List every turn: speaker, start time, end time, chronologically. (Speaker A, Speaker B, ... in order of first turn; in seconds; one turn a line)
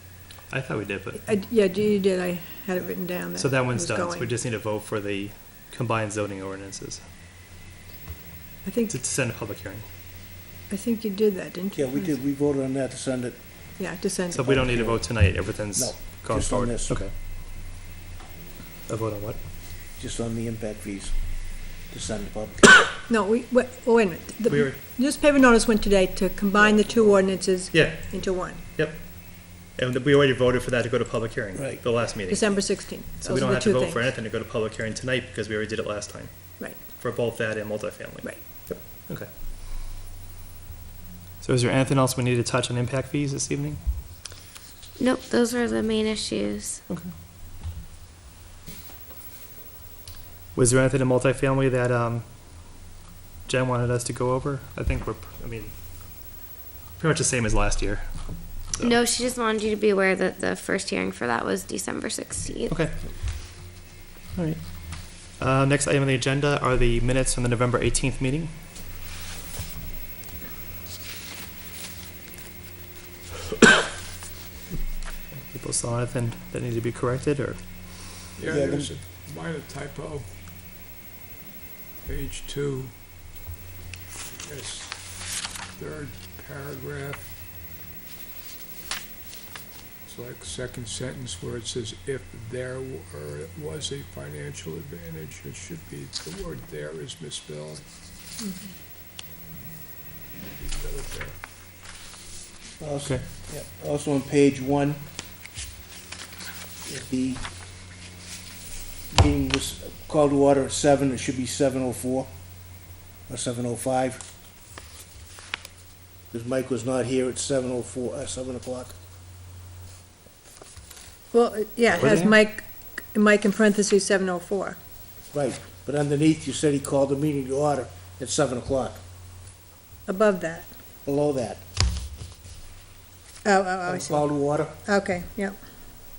Speaker A: 0.5-1.2
Speaker B: 1.2-4.3
Speaker A: 3.4-7.0
Speaker B: 8.6-8.9
Speaker A: 8.9-9.8
Speaker B: 10.7-12.1
Speaker C: 11.7-13.8
Speaker B: 13.8-14.4
Speaker A: 14.3-17.1
Speaker C: 14.4-17.0
Speaker A: 18.9-19.4
Speaker C: 20.0-22.7
Speaker B: 23.1-28.6
Speaker A: 24.5-24.8
Speaker C: 26.6-27.1
Speaker A: 27.7-39.3
Speaker C: 31.6-31.8
Speaker B: 32.3-34.1
Speaker A: 41.4-43.8
Speaker D: 45.0-46.8
Speaker A: 50.5-52.2
Speaker A: 53.5-55.7
Speaker A: 57.0-58.0
Speaker D: 58.8-62.8
Speaker A: 62.7-63.0
Speaker A: 64.3-68.5
Speaker A: 75.3-77.6
Speaker E: 78.4-80.3
Speaker C: 78.4-78.9
Speaker E: 82.0-83.0
Speaker E: 84.2-87.3
Speaker E: 90.0-97.8
Speaker B: 98.4-98.7
Speaker E: 100.5-101.4
Speaker C: 102.8-105.0
Speaker C: 106.8-107.4
Speaker C: 109.1-112.3
Speaker C: 113.3-114.2
Speaker C: 116.3-118.9
Speaker B: 121.3-124.8
Speaker A: 121.9-122.3
Speaker C: 125.3-129.0
Speaker B: 130.1-130.7
Speaker C: 131.0-131.6
Speaker B: 133.4-135.6
Speaker C: 133.8-134.7